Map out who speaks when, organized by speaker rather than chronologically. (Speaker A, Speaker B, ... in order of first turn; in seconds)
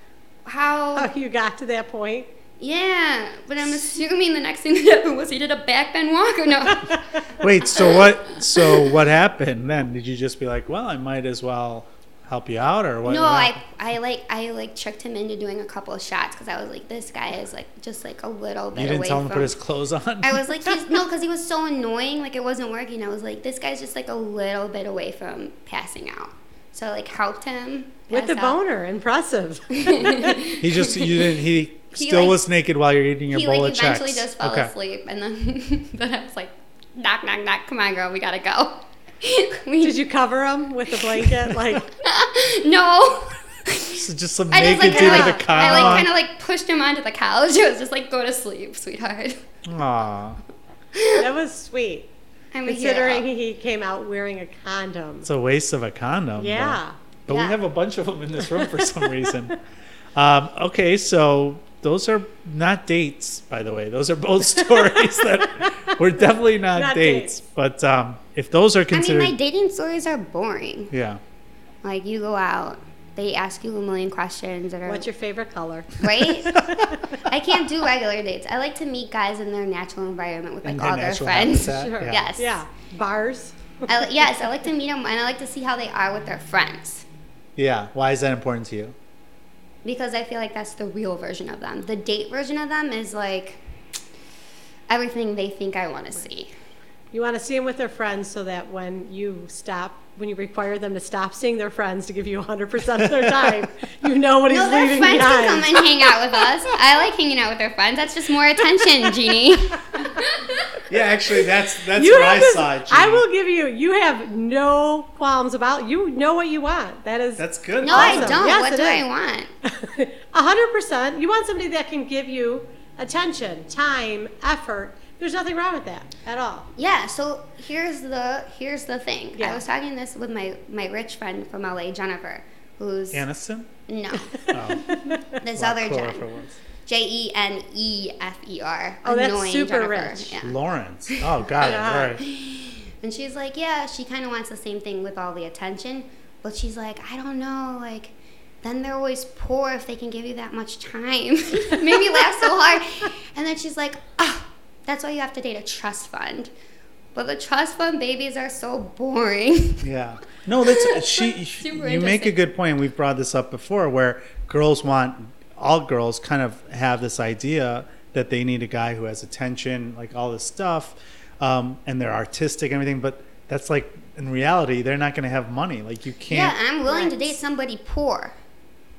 Speaker A: 0.5-1.1, 2.6-7.0, 7.7-8.8, 13.0-19.5, 20.2-28.6, 29.7-31.1, 31.9-32.4, 33.3-40.0, 42.0-44.0, 44.5-49.4, 50.9-51.2, 52.5-53.2, 57.3-57.6, 68.9-70.9, 71.8-75.0, 76.0-76.6, 77.2-82.6, 83.9-87.0, 89.8-93.6, 94.9-96.5, 104.5-110.6, 117.8-119.5, 126.8-133.2, 133.9-136.2, 136.8-140.5, 141.1-141.4, 142.2-156.5, 157.1-159.8, 160.6-162.4, 176.3-178.3
Speaker B: 0.9-2.3, 28.1-30.4, 39.8-41.9, 44.7-46.1, 51.1-52.1, 52.6-55.3, 56.4-56.9, 58.5-59.5, 65.0-65.7, 66.7-67.3, 74.8-76.0, 76.8-77.2, 81.7-84.1, 97.1-106.7, 111.9-119.0, 119.6-126.7, 129.4-129.6, 134.9-135.2, 139.0-140.3, 141.6-142.2, 176.8-177.3
Speaker C: 7.4-13.6, 18.7-20.8, 30.6-34.7, 43.9-46.1, 49.6-50.4, 55.2-59.5, 60.1-69.3, 70.9-71.2, 80.6-82.3, 87.5-88.9, 103.0-103.7, 110.9-113.2, 117.4-118.4, 133.1-133.7, 134.5-134.9, 135.5-136.6, 140.4-142.2, 159.8-176.6